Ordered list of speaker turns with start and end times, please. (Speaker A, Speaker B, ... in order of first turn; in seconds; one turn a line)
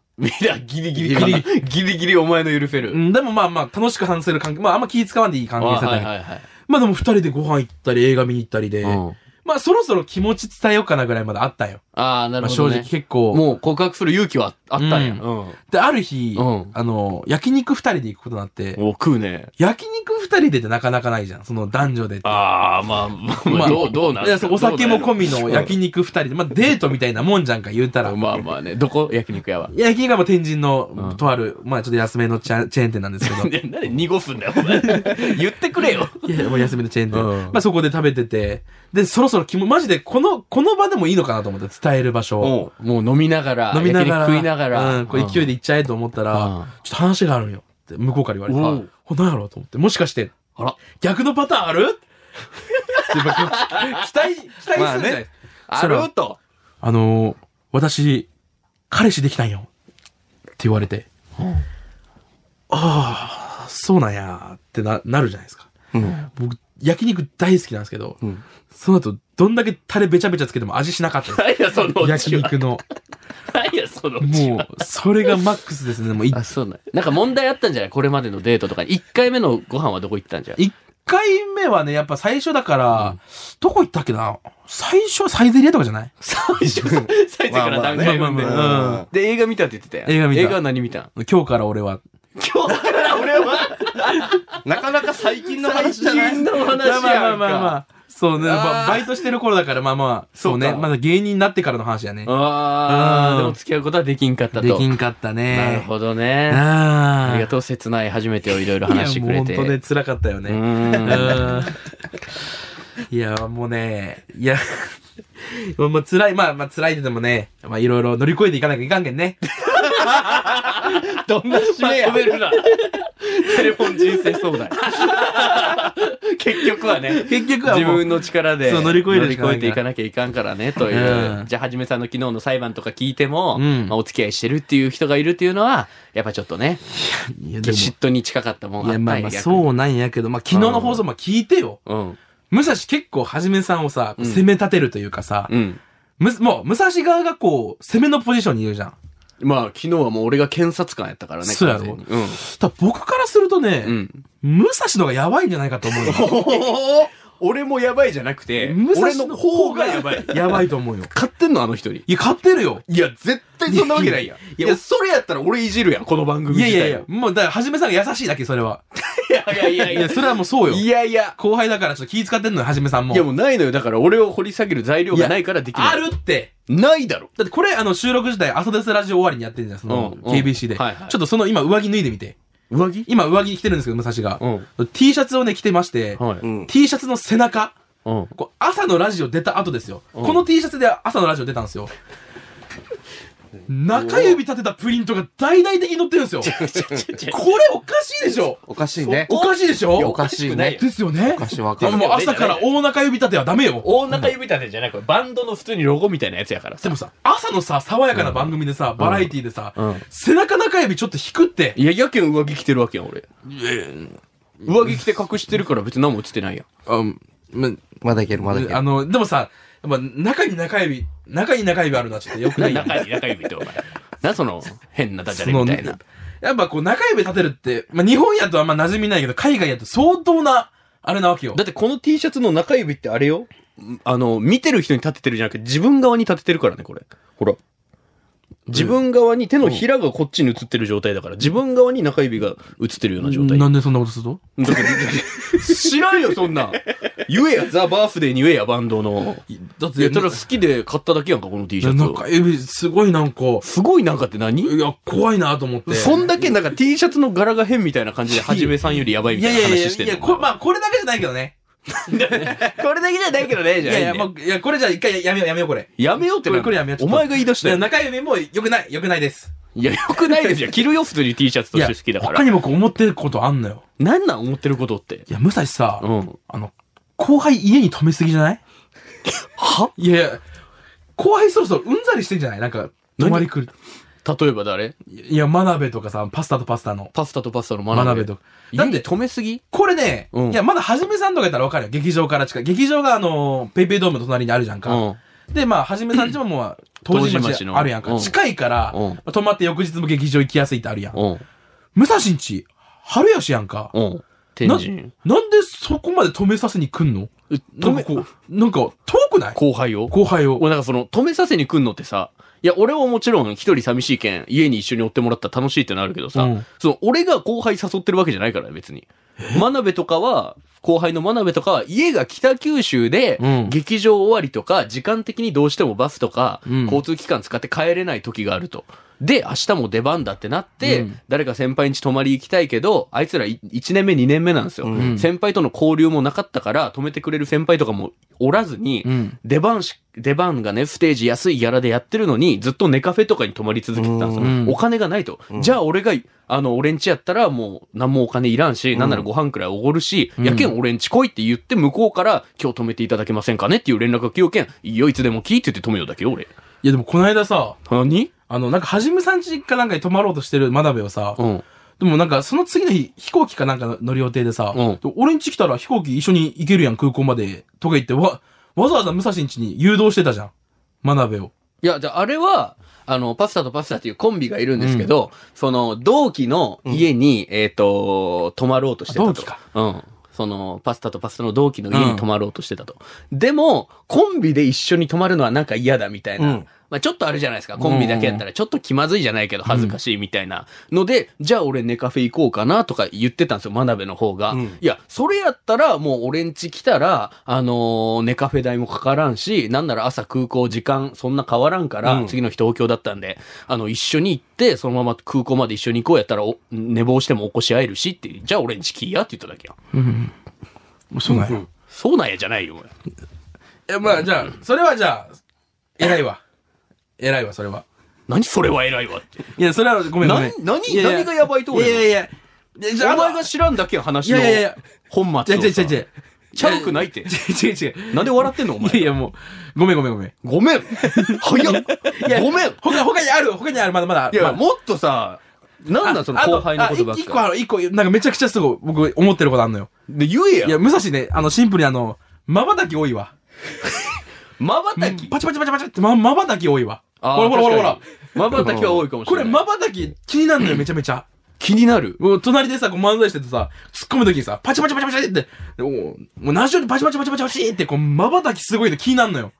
Speaker A: 0.2-3.0
Speaker B: 1.0-1.5
Speaker B: 2.9-6.1
Speaker A: 5.6-6.5
Speaker B: 6.6-11.8
Speaker A: 8.8-9.2
Speaker A: 11.9-15.6
Speaker B: 12.4-13.4
Speaker B: 14.8-18.8
Speaker A: 16.3-16.7
Speaker A: 18.8-19.5
Speaker B: 19.6-22.4
Speaker A: 22.2-25.7
Speaker B: 23.5-28.2
Speaker A: 28.0-29.7
Speaker B: 29.7-33.5
Speaker A: 33.2-36.4
Speaker B: 34.7-35.4
Speaker B: 36.2-42.6
Speaker A: 37.1-37.6
Speaker C: 42.4-42.7
Speaker A: 42.4-45.5
Speaker B: 43.7-52.0
Speaker A: 46.3-46.7
Speaker A: 48.5-48.9
Speaker A: 52.8-54.1
Speaker B: 52.9-56.1
Speaker C: 54.7-55.2
Speaker A: 55.7-56.4
Speaker B: 56.8-58.3
Speaker B: 58.9-59.7
Speaker B: 60.6-61.1
Speaker A: 61.4-61.6
Speaker B: 62.7-65.7
Speaker C: 65.9-66.2
Speaker B: 66.3-68.2
Speaker B: 68.7-72.8
Speaker A: 71.3-72.8
Speaker A: 73.5-75.4
Speaker B: 74.2-76.4
Speaker A: 76.3-80.6
Speaker B: 80.6-86.1
Speaker A: 86.2-91.1
Speaker C: 86.8-89.1
Speaker B: 88.0-89.1
Speaker B: 90.0-90.6
Speaker B: 91.1-92.0
Speaker A: 92.3-94.5
Speaker C: 94.6-96.5
Speaker A: 95.2-97.8
Speaker B: 96.7-103.5
Speaker A: 98.4-99.1
Speaker A: 100.3-100.9
Speaker A: 102.2-104.8
Speaker B: 104.5-105.9
Speaker A: 105.5-106.6
Speaker B: 106.5-107.5
Speaker A: 107.2-109.8
Speaker B: 108.8-111.8
Speaker A: 110.5-111.6
Speaker B: 113.1-119.4
Speaker A: 119.6-136.8
Speaker C: 119.9-122.4
Speaker B: 127.2-129.8
Speaker B: 130.8-131.5
Speaker B: 133.5-133.9
Speaker B: 136.9-137.9
Speaker A: 137.6-139.7
Speaker B: 138.8-141.8
Speaker A: 140.5-141.0
Speaker A: 141.8-142.2
Speaker B: 142.5-145.5
Speaker A: 144.2-144.4
Speaker A: 145.5-145.8
Speaker B: 146.2-148.9
Speaker A: 149.4-152.4
Speaker B: 151.4-156.3
Speaker A: 153.8-154.2
Speaker A: 155.9-162.0
Speaker C: 156.1-157.0
Speaker B: 158.6-161.1
Speaker B: 162.1-162.8
Speaker A: 162.9-167.1
Speaker B: 163.7-164.8
Speaker B: 166.5-168.8
Speaker A: 168.9-171.3
Speaker B: 169.6-173.3
Speaker A: 173.1-176.0
Speaker B: 175.1-176.5
Speaker A: 176.7-177.3
Speaker B: 177.4-182.4
Speaker A: 179.9-181.2
Speaker A: 182.7-183.1
Speaker B: 183.1-187.7
Speaker A: 184.4-184.7
Speaker A: 186.2-186.4
Speaker C: 186.4-186.7
Speaker A: 188.0-188.3
Speaker B: 188.3-191.9
Speaker A: 190.1-190.4
Speaker B: 193.7-196.5
Speaker A: 196.4-197.4
Speaker C: 196.6-197.0
Speaker B: 197.3-198.6
Speaker C: 198.7-199.3
Speaker A: 199.0-200.8
Speaker B: 199.2-204.2
Speaker C: 199.9-202.1
Speaker A: 201.8-202.7
Speaker A: 203.8-206.9
Speaker B: 206.8-211.8
Speaker A: 208.1-210.0
Speaker A: 211.8-213.2
Speaker B: 213.5-214.2
Speaker A: 214.6-216.7
Speaker B: 216.9-217.8
Speaker C: 218.0-218.8
Speaker B: 218.4-223.0
Speaker A: 222.6-226.0
Speaker B: 225.3-231.6
Speaker A: 231.5-237.6
Speaker A: 238.7-243.7
Speaker B: 238.7-239.0
Speaker B: 243.2-245.9
Speaker A: 244.6-249.4
Speaker B: 249.5-250.4
Speaker A: 250.0-252.2
Speaker B: 251.8-253.7
Speaker A: 253.6-254.7
Speaker B: 254.6-256.5
Speaker A: 255.9-260.5
Speaker B: 258.3-261.5
Speaker A: 261.9-264.3
Speaker B: 262.3-262.7
Speaker B: 263.8-269.5
Speaker A: 266.0-267.8
Speaker A: 269.7-272.4
Speaker B: 270.2-270.6
Speaker B: 271.7-273.8
Speaker A: 274.0-275.2
Speaker B: 275.3-278.6
Speaker A: 276.0-276.4
Speaker A: 279.3-279.9
Speaker B: 279.9-280.4
Speaker B: 281.2-283.7
Speaker A: 283.2-283.5
Speaker A: 284.2-284.9
Speaker B: 285.1-287.1
Speaker A: 287.1-289.6
Speaker B: 287.9-289.1
Speaker B: 289.7-301.2
Speaker A: 290.3-290.6
Speaker A: 294.9-295.2
Speaker A: 297.1-298.3
Speaker A: 298.9-299.2
Speaker A: 301.1-301.4
Speaker B: 301.9-303.9
Speaker A: 303.9-305.1
Speaker B: 304.6-309.6
Speaker A: 307.5-308.3
Speaker A: 309.5-356.5
Speaker B: 310.1-310.6
Speaker B: 316.3-316.6
Speaker B: 319.4-319.6
Speaker B: 323.4-323.7
Speaker B: 326.7-327.0
Speaker B: 330.8-331.2
Speaker C: 334.8-335.1
Speaker B: 334.9-335.3
Speaker B: 339.0-339.4
Speaker C: 343.9-344.6
Speaker B: 344.4-344.8
Speaker B: 350.4-350.7
Speaker B: 356.8-357.8
Speaker A: 357.9-358.3
Speaker B: 358.5-361.4
Speaker A: 361.4-361.6
Speaker B: 362.0-370.5
Speaker A: 364.7-365.0
Speaker B: 371.0-371.5
Speaker A: 371.8-409.8
Speaker B: 374.8-375.1
Speaker B: 379.1-379.6
Speaker B: 381.9-382.2
Speaker C: 386.4-386.7
Speaker B: 387.8-388.4
Speaker B: 389.7-389.9
Speaker C: 394.5-394.8
Speaker C: 402.0-402.3
Speaker B: 409.9-410.3
Speaker B: 411.1-411.6
Speaker A: 411.9-412.9
Speaker B: 413.9-415.4
Speaker B: 416.0-416.4
Speaker B: 417.2-417.8
Speaker A: 418.3-419.4
Speaker B: 419.6-423.5
Speaker A: 420.2-422.1
Speaker A: 423.0-426.0
Speaker B: 424.2-424.8
Speaker B: 425.4-426.1
Speaker A: 426.5-427.3
Speaker B: 426.6-430.3
Speaker A: 428.1-429.1
Speaker A: 430.4-432.9
Speaker B: 431.0-434.6
Speaker A: 434.3-437.4
Speaker B: 436.0-439.9
Speaker A: 440.1-440.8
Speaker B: 440.6-443.3
Speaker A: 444.6-445.3
Speaker B: 445.0-451.2
Speaker A: 447.2-449.6
Speaker A: 451.6-452.2
Speaker B: 452.2-459.5